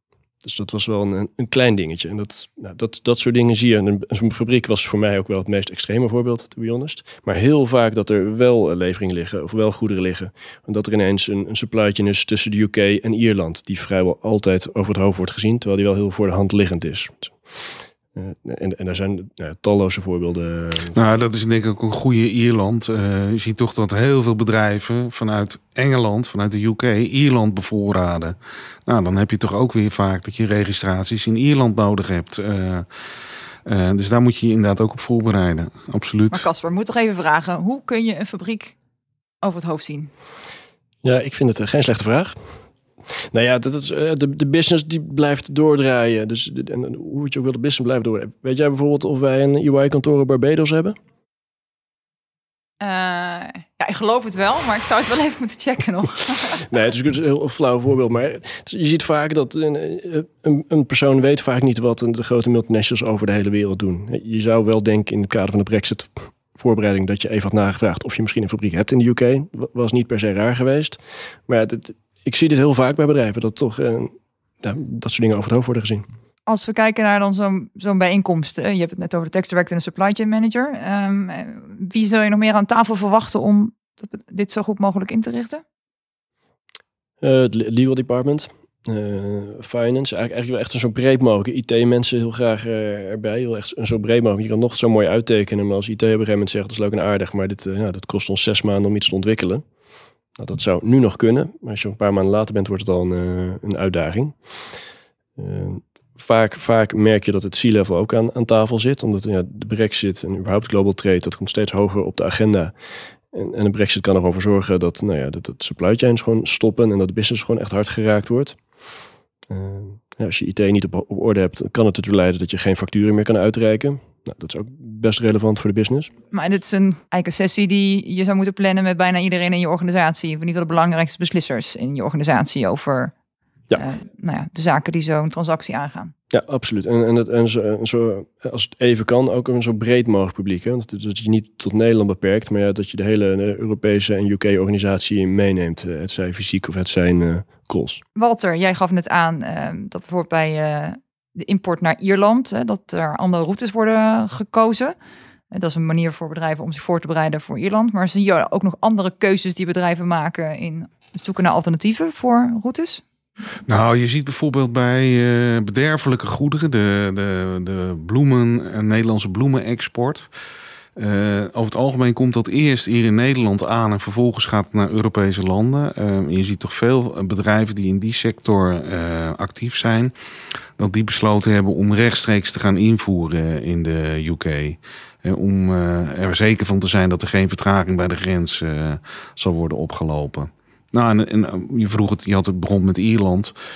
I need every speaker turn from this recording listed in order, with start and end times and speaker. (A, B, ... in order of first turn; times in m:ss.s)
0:00.4-0:20.9 A
0:20.9-0:32.9 B
0:33.6-0:36.5 B
0:36.3-0:38.8 C
0:39.4-0:40.1 C
0:41.0-0:42.4 A
0:43.3-0:51.0 A
0:52.8-0:56.6 C
0:56.7-1:14.1 A
1:14.6-1:16.0 A
1:16.5-1:25.6 C
1:27.2-1:39.6 A
1:40.4-1:44.4 A
1:45.4-1:52.7 A
1:53.3-1:58.6 A
1:59.5-2:06.1 A
2:06.3-2:13.1 C
2:13.8-2:16.1 C
2:16.3-2:28.0 A
2:28.1-2:34.9 C
2:35.5-2:43.0 C
2:43.7-2:50.3 B
2:51.0-3:00.1 B
3:00.8-3:13.5 B